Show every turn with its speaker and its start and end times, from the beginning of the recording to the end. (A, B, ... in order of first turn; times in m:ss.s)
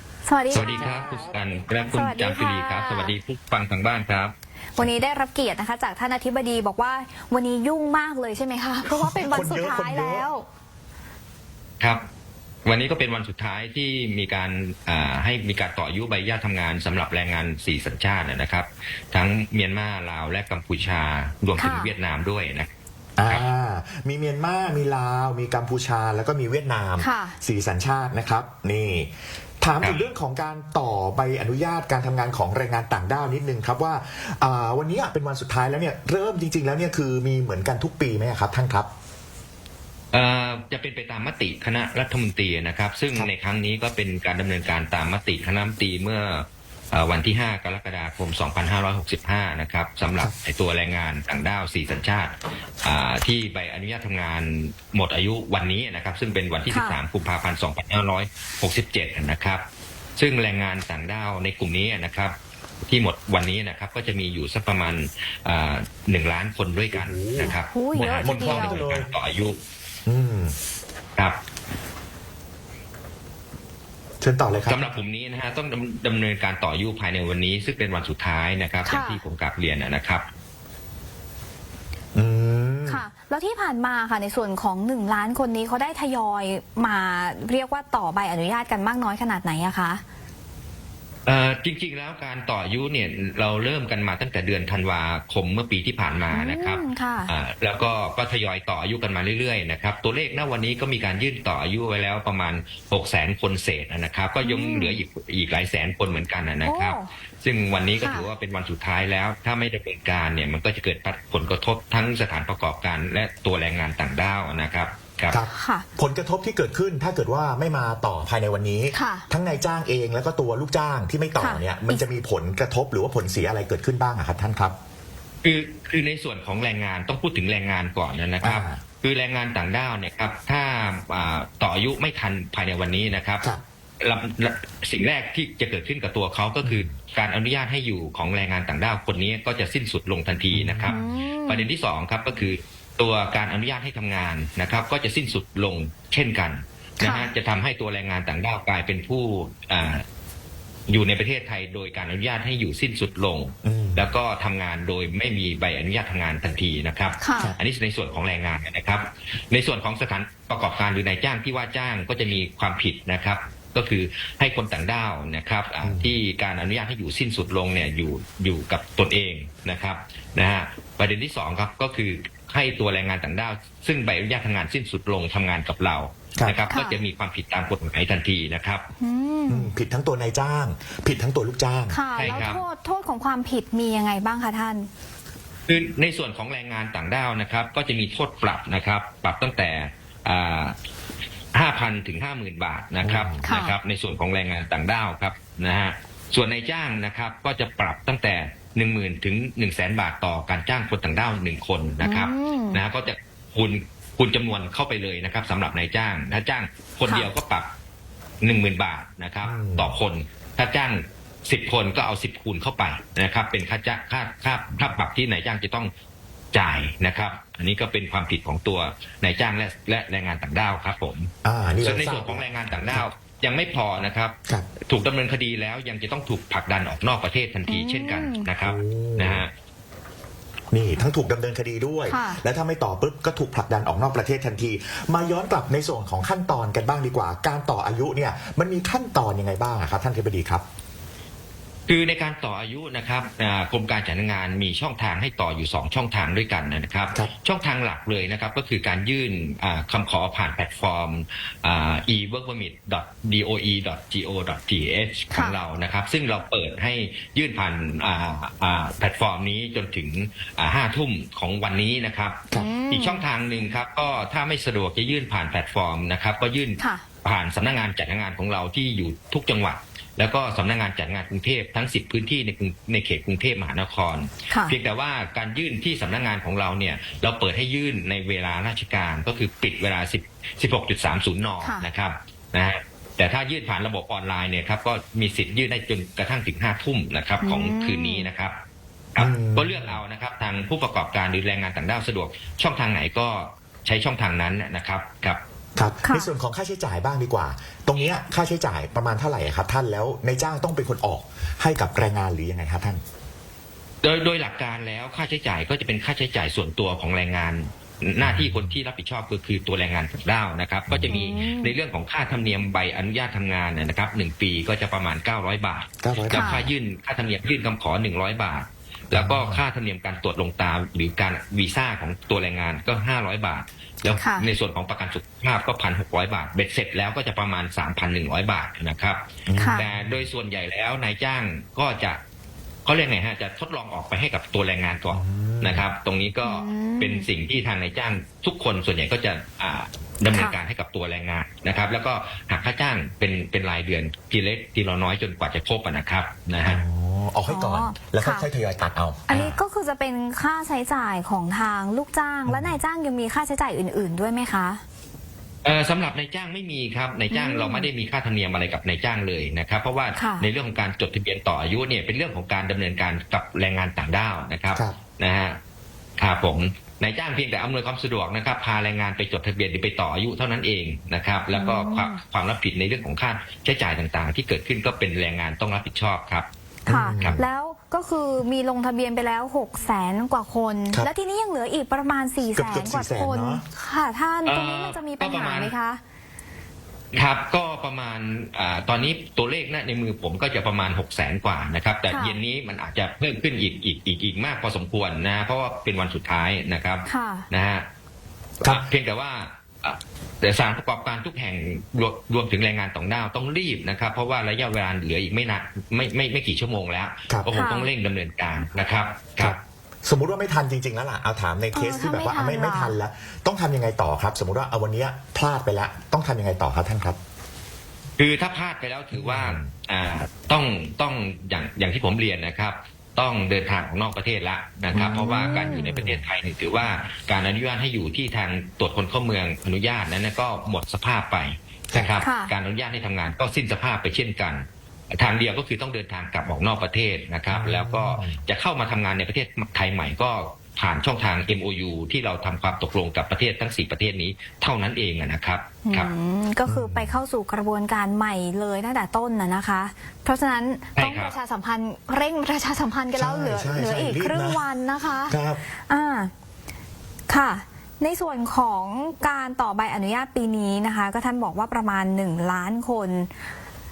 0:00.2-0:00.9 A
0:00.5-0:04.3 B
0:00.5-0:01.2 C
0:01.8-0:03.1 A
0:04.8-0:10.5 A
0:08.9-0:10.3 C
0:11.8-0:12.0 B
0:12.6-0:22.7 B
0:21.6-0:21.9 A
0:23.2-0:38.9 C
0:27.0-0:27.4 A
0:29.8-0:30.1 B
0:40.1-0:59.6 B
0:56.7-0:57.0 A
1:00.2-1:02.4 B
1:02.9-1:09.6 B
1:06.9-1:07.5 C
1:07.5-1:08.8 A
1:08.2-1:09.1 C
1:10.1-1:10.5 C
1:14.2-1:14.9 C
1:14.6-1:20.3 B
1:18.8-1:19.2 A
1:22.2-1:23.0 C
1:22.9-1:30.0 A
1:31.3-1:55.4 B
1:36.3-1:37.3 A
1:44.4-1:45.0 A
1:46.6-1:47.1 A
1:48.0-1:48.3 A
1:55.3-2:04.8 C
1:55.5-1:55.9 A
1:58.9-1:59.3 A
2:01.4-2:02.0 A
2:05.4-2:13.5 B
2:08.4-2:08.8 C
2:14.0-2:30.0 B
2:16.6-2:16.9 C
2:20.5-2:21.0 C
2:20.9-2:21.7 A
2:27.0-2:27.3 A
2:30.9-2:58.9 B
2:33.6-2:34.2 C
2:37.2-2:37.6 A
2:45.8-2:46.2 C
2:56.7-2:57.0 A
2:59.0-2:59.7 A
2:59.5-3:02.4 C
3:01.9-3:04.9 A
3:02.2-3:02.6 B
3:05.7-3:10.8 B
3:11.5-3:27.7 B
3:13.0-3:13.4 C
3:13.4-3:13.8 A
3:22.0-3:22.8 A
3:28.4-3:35.9 B
3:29.4-3:30.0 C
3:36.5-3:41.3 B
3:41.4-3:43.1 C
3:41.8-3:49.5 B
3:47.7-3:48.5 A
3:48.6-3:49.4 C
3:50.7-4:00.6 C
3:52.1-3:52.4 A
4:01.9-4:48.6 B
4:15.3-4:15.6 A
4:22.5-4:23.3 A
4:26.8-4:27.0 A
4:34.5-4:34.8 A
4:41.6-4:41.9 A
4:47.4-4:48.3 A
4:49.2-4:55.4 B
4:49.2-4:50.0 C
4:55.8-5:03.0 C
4:56.0-4:56.3 A
5:04.0-5:32.2 B
5:08.2-5:08.8 C
5:10.9-5:11.2 C
5:11.1-5:11.8 A
5:16.0-5:16.7 C
5:16.3-5:16.7 A
5:19.1-5:19.6 C
5:24.2-5:24.5 A
5:29.5-5:30.3 C
5:29.6-5:29.9 A
5:32.8-5:46.8 B
5:35.1-5:35.9 C
5:36.4-5:37.3 A
5:40.3-5:40.6 A
5:46.6-5:49.6 C
5:47.5-5:48.5 A
5:49.3-5:54.8 A
5:52.5-5:52.8 C
5:55.6-6:05.6 B
5:57.3-5:57.9 A
6:00.1-6:00.5 A
6:06.2-6:16.5 B
6:11.5-6:12.2 A
6:16.9-6:17.4 C
6:16.9-6:26.0 A
6:22.6-6:23.6 C
6:24.5-6:25.7 B
6:27.1-6:37.9 B
6:32.1-6:32.4 A
6:37.1-6:37.5 A
6:38.6-6:49.6 B
6:47.5-6:47.9 A
6:49.4-6:57.2 C
6:51.7-6:53.0 A
6:58.2-7:26.1 B
6:59.1-6:59.7 C
7:04.9-7:06.2 C
7:05.0-7:05.8 A
7:12.2-7:12.5 A
7:17.5-7:18.4 C
7:25.8-7:35.4 A
7:26.7-7:27.2 C
7:31.0-7:31.4 B
7:33.2-7:34.6 C
7:35.3-7:35.6 C
7:35.9-7:36.3 A
7:37.3-7:43.3 A